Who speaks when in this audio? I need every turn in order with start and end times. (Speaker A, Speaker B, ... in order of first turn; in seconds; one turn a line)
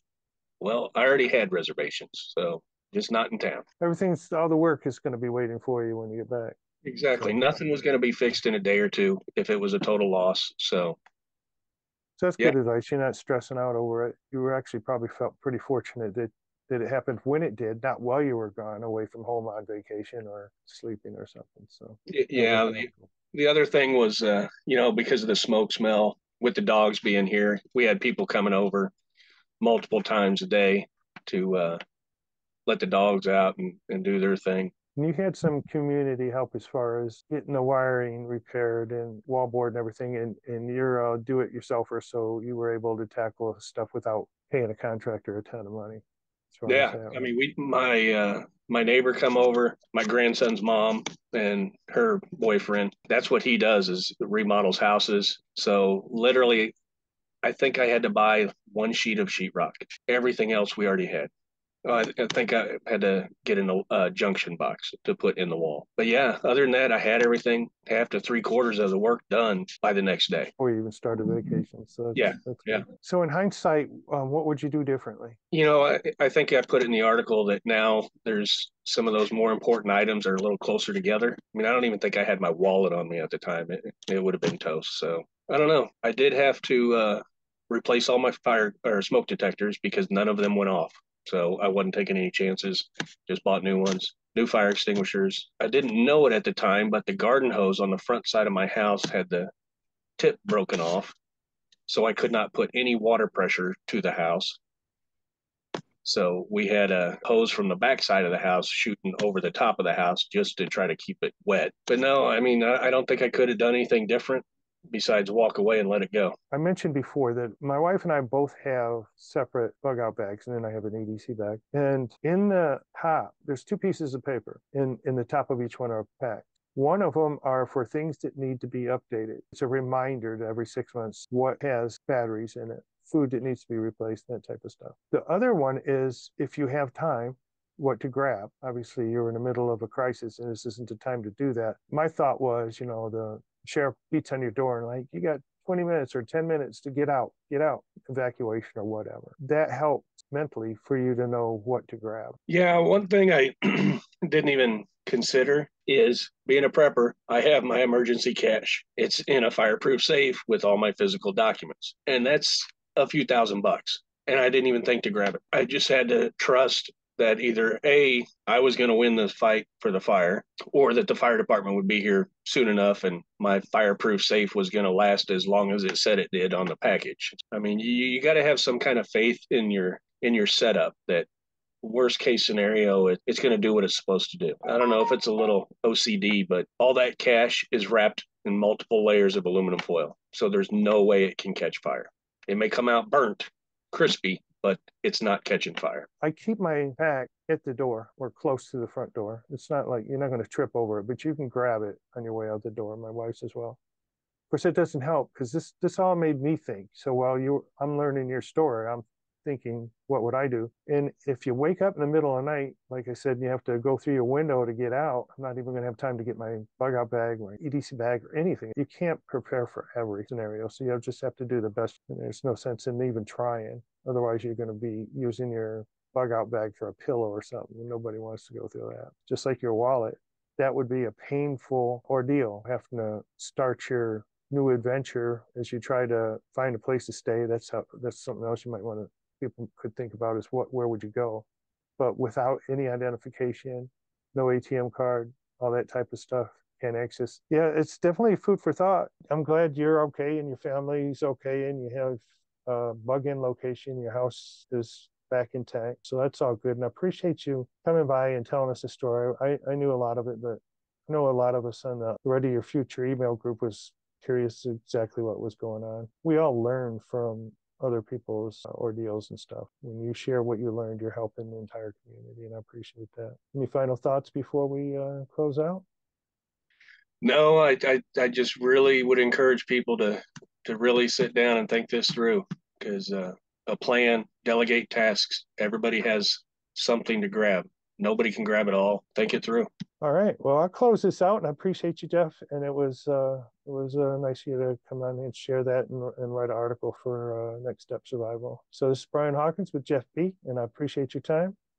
Speaker A: 0.6-3.6
Speaker B: 3.8-6.6
Speaker A: 6.8-11.0
Speaker B: 7.2-7.6
Speaker B: 12.2-23.1
Speaker A: 22.1-28.9
Speaker A: 29.6-31.8
Speaker A: 32.7-34.7
Speaker B: 35.0-46.0
Speaker B: 46.5-47.2
Speaker A: 46.7-56.7
Speaker A: 57.4-61.3
Speaker A: 61.8-70.5
Speaker B: 70.6-75.4
Speaker A: 72.1-72.8
Speaker A: 75.5-99.5
Speaker A: 100.2-101.1
Speaker A: 101.9-104.6
Speaker A: 106.0-116.3
Speaker B: 116.5-152.4
Speaker A: 152.5-181.3
Speaker A: 181.8-196.1
Speaker B: 196.2-203.8
Speaker B: 204.5-241.5
Speaker B: 242.0-275.8
Speaker A: 277.2-289.7
Speaker B: 290.0-301.6